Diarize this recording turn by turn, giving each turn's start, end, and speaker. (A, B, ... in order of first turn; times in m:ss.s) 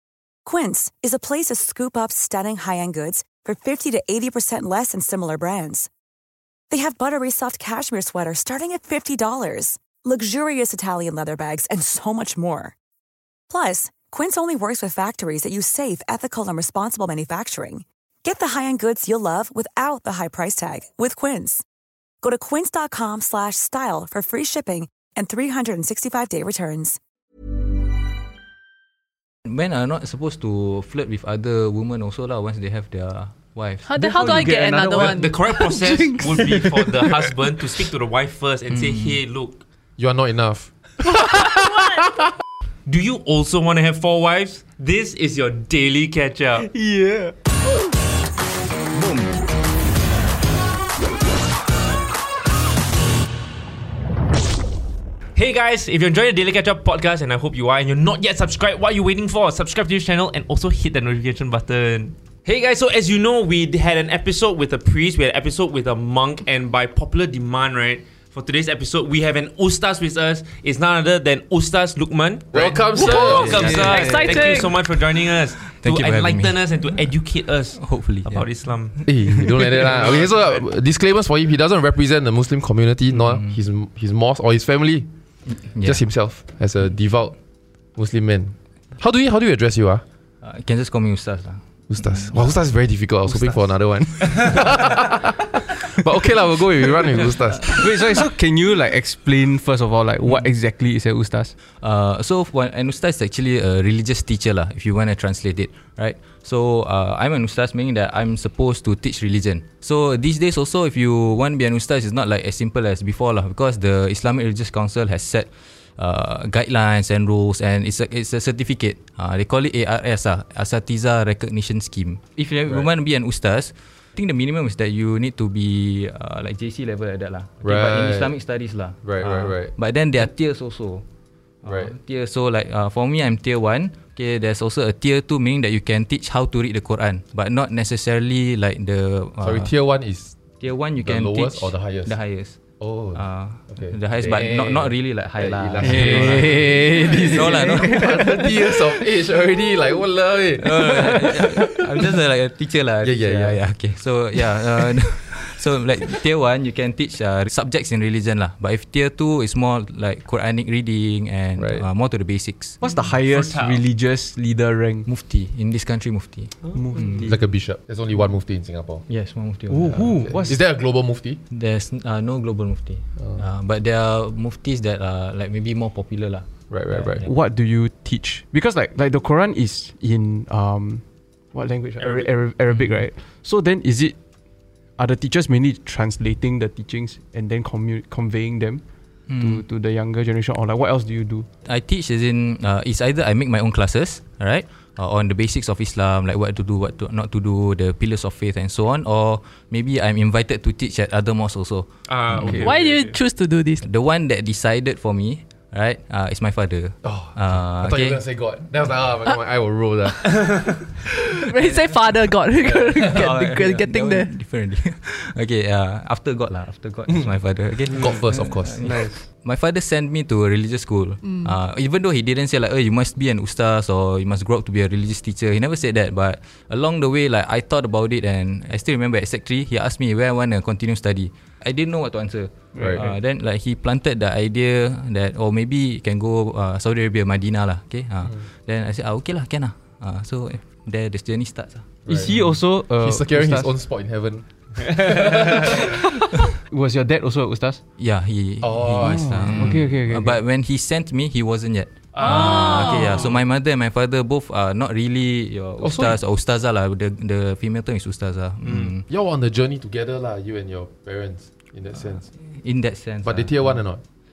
0:00.4-0:05.9 A
0:06.7-0:12.7 A
0:13.5-0:21.6 A
0:22.2-0:27.0 A
0:29.4-0:34.5 B
0:33.9-0:35.5 C
0:34.0-0:37.3 D
0:34.2-0:39.6 E
0:38.7-0:39.2 B
0:40.0-0:41.6 F
0:42.9-0:46.7 E
0:46.7-0:47.3 D
0:55.4-1:19.1 E
1:12.5-1:13.9 F
1:13.0-1:14.7 C
1:13.2-1:14.9 B
1:15.6-1:16.6 B
1:17.8-1:19.0 B
1:19.1-1:25.1 F
1:19.8-1:20.6 E
1:23.1-1:23.6 B
1:25.5-1:26.0 B
1:25.8-1:27.4 F
1:28.0-1:30.0 F
1:30.4-1:32.3 B
1:31.9-1:37.9 F
1:37.7-1:41.5 D
1:41.8-2:11.0 B
2:07.6-2:08.3 F
2:09.0-2:09.7 F
2:11.6-2:19.7 B
2:11.7-2:11.9 F
2:19.4-2:20.4 F
2:20.6-2:22.6 B
2:21.0-2:22.2 F
2:22.8-2:31.6 F
2:23.1-2:28.2 B
2:25.8-2:28.7 D
2:30.6-2:42.8 B
2:33.0-2:33.6 F
2:41.6-2:41.8 F
2:42.8-2:45.1 D
2:43.2-2:43.8 E
2:45.1-2:47.4 B
2:46.8-2:47.3 D
2:47.2-2:49.0 F
2:49.1-2:50.2 B
2:49.7-2:50.6 D
2:50.1-2:51.4 F
2:51.5-2:56.5 B
2:56.7-2:57.2 F
2:57.2-3:01.0 D
3:01.5-3:04.2 D
3:02.0-3:02.3 E
3:05.0-3:08.8 D
3:09.3-3:09.6 B
3:09.4-3:11.5 D
3:11.6-3:22.7 B
3:22.1-3:23.2 E
3:22.6-3:23.8 C
3:23.8-3:28.2 B
3:27.0-3:30.7 F
3:31.5-3:34.3 C
3:32.7-3:33.0 F
3:33.0-4:02.0 B
3:37.9-3:38.2 D
3:38.0-3:38.8 F
3:38.8-3:39.3 D
3:41.2-3:41.5 C
3:52.8-3:53.1 D
4:02.1-4:02.3 F
4:02.1-4:03.7 D
4:03.0-4:05.5 F
4:04.9-4:07.8 D
4:08.0-4:19.0 B
4:08.6-4:09.8 F
4:09.0-4:10.4 D
4:12.1-4:13.2 E
4:12.2-4:13.2 C
4:15.8-4:16.2 F
4:18.6-4:18.9 E
4:19.1-4:22.3 F
4:22.5-4:23.8 B
4:23.2-4:24.0 F